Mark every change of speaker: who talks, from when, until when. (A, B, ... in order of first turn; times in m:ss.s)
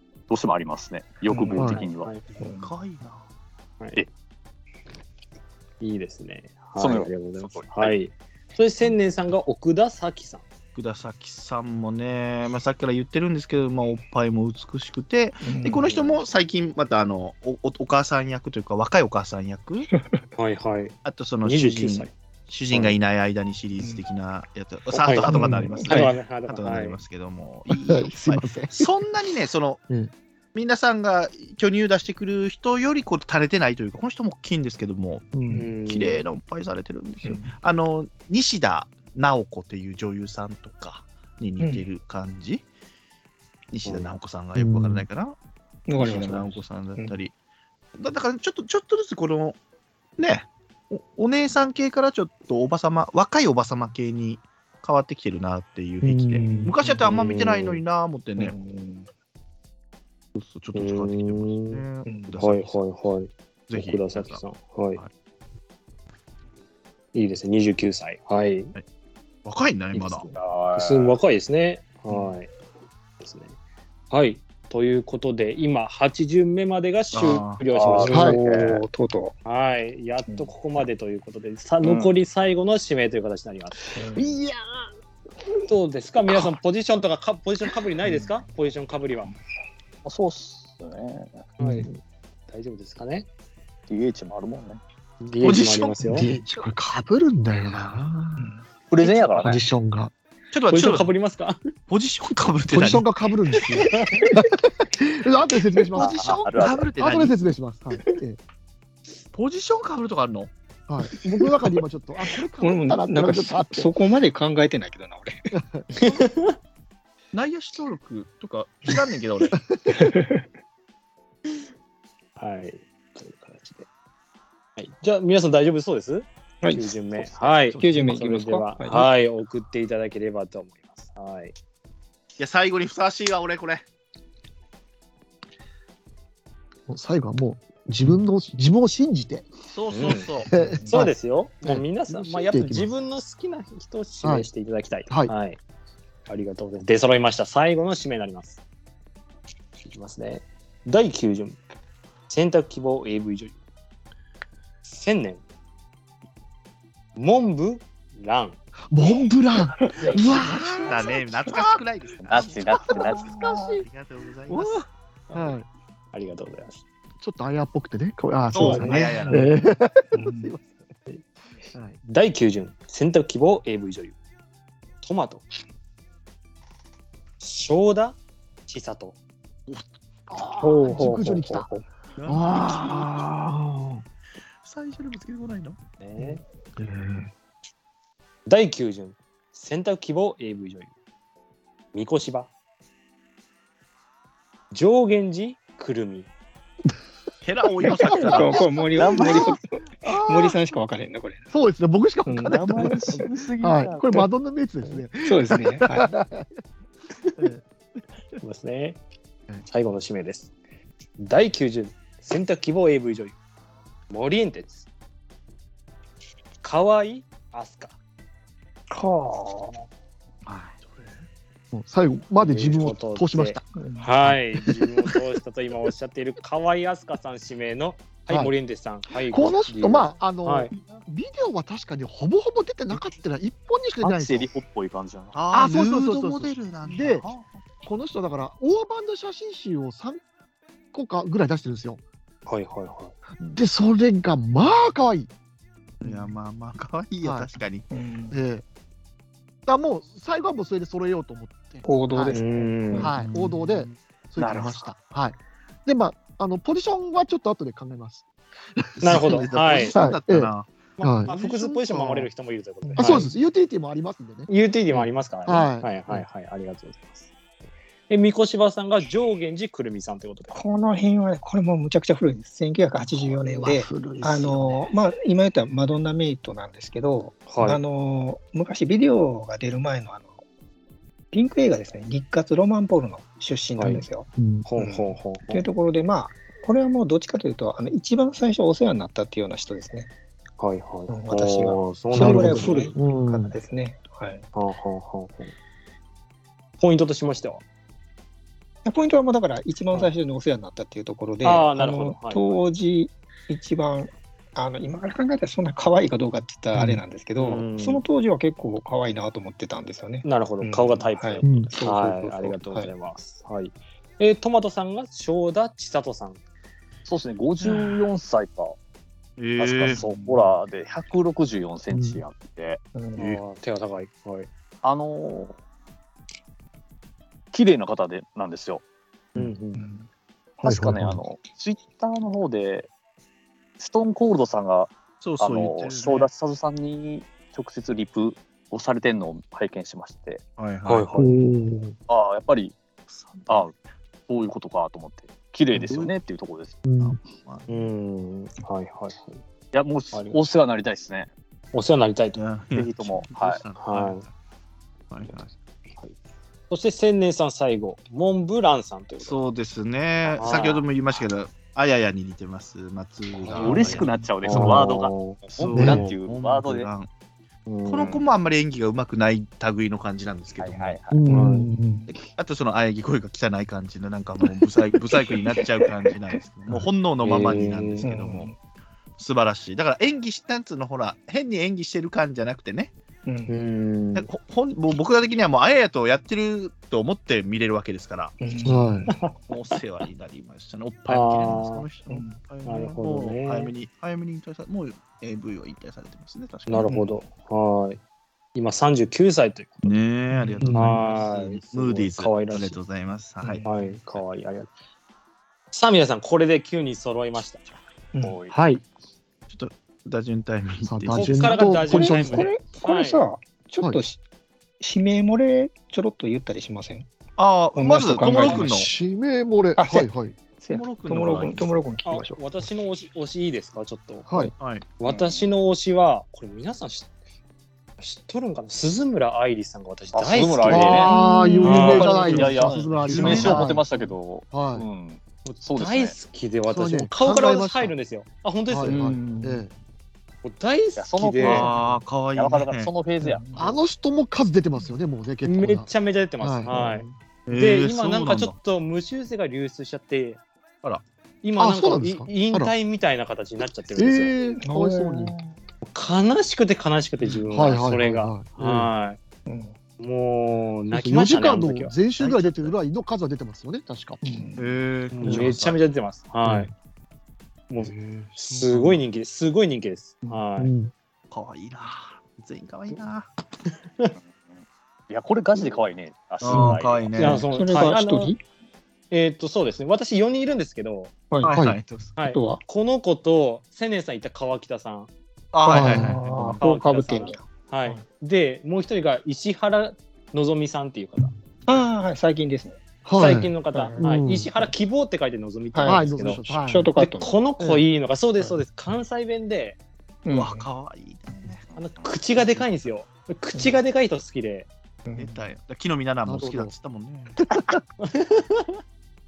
0:00.3-0:02.1 A
0:01.5-0:01.8 B
0:01.6-0:02.2 C
0:02.3-0:03.2 D
0:02.4-0:02.7 E
0:05.8-0:10.4 C
0:06.8-0:07.9 A
0:10.7-0:19.9 D
0:15.4-0:16.0 E
0:15.8-0:16.1 C
0:20.4-0:22.1 C
0:21.0-0:29.8 D
0:22.7-0:23.0 C
0:24.9-0:25.3 C
0:25.3-0:26.1 E
0:25.3-0:25.8 B
0:25.8-0:27.0 C
0:27.7-0:28.9 B
0:30.5-0:35.3 D
0:35.3-0:35.7 B
0:35.5-0:36.2 C
0:35.8-0:42.6 D
0:41.6-0:41.8 E
0:43.7-0:45.4 D
0:43.8-0:44.1 C
0:44.5-0:45.1 B
0:45.9-0:47.2 E
0:46.0-0:47.3 D
0:48.0-0:49.6 D
0:50.2-0:58.6 D
0:56.0-0:56.7 B
0:56.4-0:57.0 E
0:57.0-0:57.8 C
0:58.4-0:59.1 E
1:00.3-1:02.8 D
1:00.7-1:01.8 C
1:02.0-1:02.4 E
1:02.4-1:05.0 C
1:03.7-1:04.4 D
1:07.1-1:08.7 C
1:09.4-1:10.2 D
1:09.9-1:12.5 C
1:10.3-1:11.2 A
1:13.2-1:13.5 C
1:14.1-1:18.8 C
1:17.1-1:17.6 D
1:17.7-1:18.8 A
1:18.1-1:19.4 E
1:18.1-1:18.4 B
1:19.4-1:24.1 C
1:21.8-1:22.1 A
1:24.0-1:24.3 E
1:25.7-1:29.3 C
1:28.0-1:28.4 E
1:30.0-1:31.5 A
1:31.6-1:31.9 C
1:31.6-1:31.9 B
1:32.5-1:33.3 C
1:33.9-1:34.8 A
1:35.2-1:36.3 C
1:35.4-1:36.2 D
1:36.0-1:38.5 B
1:38.9-1:39.6 A
1:39.3-1:40.1 B
1:40.5-1:41.1 D
1:40.7-1:41.6 C
1:41.9-1:43.1 D
1:42.7-1:48.4 B
1:43.8-1:44.3 C
1:46.0-1:46.9 A
1:46.0-1:47.4 D
1:49.3-1:50.5 D
1:50.9-1:53.9 B
1:52.6-1:55.4 E
1:55.5-1:55.9 B
1:55.9-1:56.6 C
1:57.3-1:59.6 D
1:59.9-2:00.4 E
2:02.4-2:03.9 C
2:04.8-2:11.5 C
2:06.6-2:09.1 E
2:12.4-2:13.8 D
2:16.9-2:19.5 B
2:19.7-2:20.5 D
2:19.9-2:20.3 C
2:20.4-2:22.9 B
2:20.6-2:21.0 E
2:20.9-2:25.6 C
2:24.2-2:24.5 B
2:26.3-2:28.6 C
2:29.8-2:31.6 C
2:32.3-2:33.6 C
2:34.8-2:35.4 C
2:37.2-2:38.6 C
2:38.9-2:41.1 B
2:39.8-2:40.1 E
2:40.3-2:44.8 D
2:42.3-2:43.8 A
2:42.9-2:43.8 B
2:44.5-2:44.8 B
2:45.3-2:45.6 C
2:45.3-2:45.6 B
2:46.1-2:46.8 C
2:47.2-2:50.7 B
2:48.5-2:49.5 D
2:48.5-2:49.5 E
2:50.1-2:50.5 E
2:52.0-2:54.1 C
2:55.0-2:55.4 C
2:57.4-2:59.2 C
2:59.7-3:01.7 B
3:00.6-3:01.8 E
3:02.2-3:03.3 D
3:02.2-3:04.0 B
3:04.6-3:05.8 D
3:06.0-3:06.4 C
3:06.8-3:07.3 B
3:08.5-3:10.9 C
3:11.9-3:12.5 C
3:14.7-3:16.3 C
3:17.4-3:18.7 D
3:17.8-3:20.6 B
3:18.0-3:21.5 E
3:19.0-3:19.6 A
3:21.5-3:26.5 B
3:22.2-3:23.2 E
3:22.5-3:24.3 A
3:25.2-3:26.1 E
3:27.4-3:27.6 B
3:28.4-3:29.0 C
3:29.6-3:30.5 C
3:31.2-3:33.4 C
3:34.1-3:34.8 C
3:36.6-3:38.0 C
3:38.9-3:39.7 E
3:40.5-3:41.1 D
3:41.7-3:43.7 B
3:42.4-3:50.7 C
3:43.8-3:44.1 E
3:49.2-3:54.5 B
3:54.0-3:55.4 A
3:55.3-3:57.5 D
3:55.5-3:57.3 B
3:57.8-4:00.2 B
4:00.9-4:02.0 B
4:02.4-4:03.1 C
4:03.4-4:05.3 B
4:06.0-4:07.9 D
4:06.0-4:06.3 B
4:07.2-4:07.5 B
4:07.9-4:08.4 E
4:08.3-4:08.6 B
4:09.6-4:12.4 B
4:11.8-4:13.2 E
4:12.3-4:13.1 C
4:12.9-4:18.2 B
4:13.1-4:13.9 D
4:14.4-4:14.9 A
4:18.8-4:19.4 B
4:19.0-4:19.9 C
4:19.0-4:20.7 D
4:19.9-4:22.3 B
4:21.0-4:23.3 C
4:22.8-4:23.3 E
4:23.0-4:26.2 B
4:24.5-4:27.3 C
4:28.1-4:30.6 C
4:30.5-4:40.4 E
4:33.1-4:34.9 B
4:37.5-4:37.8 C
4:41.3-4:50.1 E
4:43.8-4:44.0 C
4:44.4-4:44.6 B
4:44.6-4:45.6 C
4:50.6-4:52.9 C
4:51.1-4:54.4 E
4:52.1-4:53.5 B
4:54.5-4:55.5 C
4:56.8-4:57.6 C
4:58.8-5:12.9 E
5:01.4-5:02.6 C
5:06.7-5:07.0 B
5:07.4-5:08.0 C
5:10.2-5:16.4 C
5:11.4-5:11.7 B
5:17.0-5:18.8 A
5:19.4-5:20.0 D
5:19.6-5:22.8 A
5:19.9-5:20.4 E
5:21.9-5:22.2 B
5:22.9-5:23.2 E
5:23.2-5:24.5 C
5:24.8-5:25.6 A
5:27.5-5:28.8 A
5:29.3-5:29.8 C
5:29.8-5:30.1 E
5:30.6-5:32.9 A
5:30.6-5:31.2 B
5:33.8-5:40.4 A
5:35.2-5:36.3 D
5:40.6-5:41.1 D
5:40.8-5:41.4 C
5:41.1-5:42.0 B
5:42.1-5:42.8 A
5:43.1-5:43.6 D
5:43.5-5:43.7 A
5:44.3-5:46.8 A
5:45.7-5:46.1 D
5:46.8-5:47.2 B
5:47.0-5:47.9 D
5:47.7-5:49.4 C
5:49.7-5:51.3 A
5:50.1-5:50.4 C
5:51.7-5:52.4 C
5:52.4-5:54.3 D
5:52.7-5:53.6 A
5:53.8-5:54.2 C
5:55.1-5:55.5 D
5:56.7-5:59.4 C
5:59.2-6:04.1 D
6:00.4-6:00.7 A
6:00.4-6:00.8 C
6:03.4-6:06.1 C
6:03.5-6:06.9 A
6:04.5-6:04.8 B
6:05.6-6:07.1 D
6:05.7-6:06.1 B
6:07.7-6:08.2 C
6:07.8-6:11.0 D
6:10.6-6:11.2 A
6:11.1-6:12.1 B
6:11.3-6:11.7 C
6:12.3-6:18.5 D
6:15.2-6:16.1 E
6:17.2-6:18.0 C
6:18.0-6:18.5 E
6:19.2-6:22.9 D
6:23.2-6:23.5 E
6:23.5-6:24.3 C
6:24.1-6:28.4 D
6:28.4-6:29.1 E
6:28.6-6:29.1 B
6:29.5-6:36.9 D
6:31.1-6:31.9 C
6:32.1-6:32.4 E
6:32.6-6:33.7 C
6:36.7-6:38.0 C
6:38.5-6:39.9 C
6:39.8-6:43.6 D
6:40.3-6:40.8 E
6:40.6-6:41.0 B
6:40.7-6:42.8 C
6:43.4-6:43.9 E
6:43.6-6:44.7 C
6:45.7-6:47.6 C
6:48.1-6:48.4 E
6:48.2-6:48.5 A
6:48.5-6:48.8 C
6:49.5-6:51.6 D
6:50.8-6:52.5 B
6:51.1-6:53.2 C
6:51.7-6:54.2 E
6:54.8-6:57.1 E
6:57.4-6:58.9 D
6:57.7-6:58.8 E
6:58.3-7:00.4 B
6:59.8-7:02.6 E
7:00.7-7:01.9 D
7:02.0-7:04.3 C
7:04.3-7:04.5 B
7:04.6-7:04.9 D
7:05.0-7:07.1 C
7:05.0-7:05.4 A
7:08.0-7:12.8 C
7:10.1-7:16.1 A
7:10.7-7:13.9 B
7:11.1-7:11.7 E
7:11.6-7:13.8 D
7:14.5-7:14.9 B
7:15.4-7:19.0 C
7:16.7-7:17.9 B
7:18.7-7:19.7 B
7:18.8-7:19.6 E
7:20.4-7:21.7 C
7:21.0-7:21.8 A
7:21.4-7:22.9 D
7:22.4-7:23.7 A
7:23.2-7:23.6 E
7:23.5-7:25.9 B
7:25.4-7:30.4 C
7:26.4-7:27.0 B
7:27.5-7:28.5 D
7:31.4-7:34.3 C
7:31.6-7:32.7 B
7:33.9-7:35.4 B
7:34.6-7:35.5 E
7:35.8-7:39.2 C
7:37.5-7:38.9 B
7:39.4-7:39.7 E
7:40.0-7:41.9 C
7:40.9-7:44.2 B
7:42.2-7:42.7 D
7:44.2-7:44.7 E
7:44.6-7:45.8 D
7:45.1-7:46.7 C
7:47.7-7:50.7 C
7:48.5-7:48.9 E
7:50.6-7:50.9 B
7:51.3-7:53.3 D
7:54.2-7:57.1 A
7:56.4-7:57.5 D
7:57.2-7:58.3 C
7:57.2-7:58.4 E
7:59.1-8:01.1 C
8:01.3-8:01.6 E
8:01.4-8:02.1 D
8:01.5-8:01.8 B
8:02.2-8:05.1 C
8:02.2-8:02.6 E
8:05.5-8:06.6 D
8:05.7-8:06.2 B
8:05.7-8:08.0 E
8:06.6-8:11.3 C
8:11.7-8:12.8 E
8:13.0-8:14.7 B
8:13.2-8:19.8 C
8:13.7-8:14.0 E
8:15.7-8:17.3 E
8:15.8-8:16.9 B
8:17.6-8:17.8 B
8:20.2-8:20.7 E
8:20.3-8:21.7 D
8:21.8-8:24.7 C
8:22.3-8:22.6 D
8:25.0-8:25.4 E
8:25.2-8:27.4 D
8:26.3-8:26.7 B
8:28.0-8:28.8 C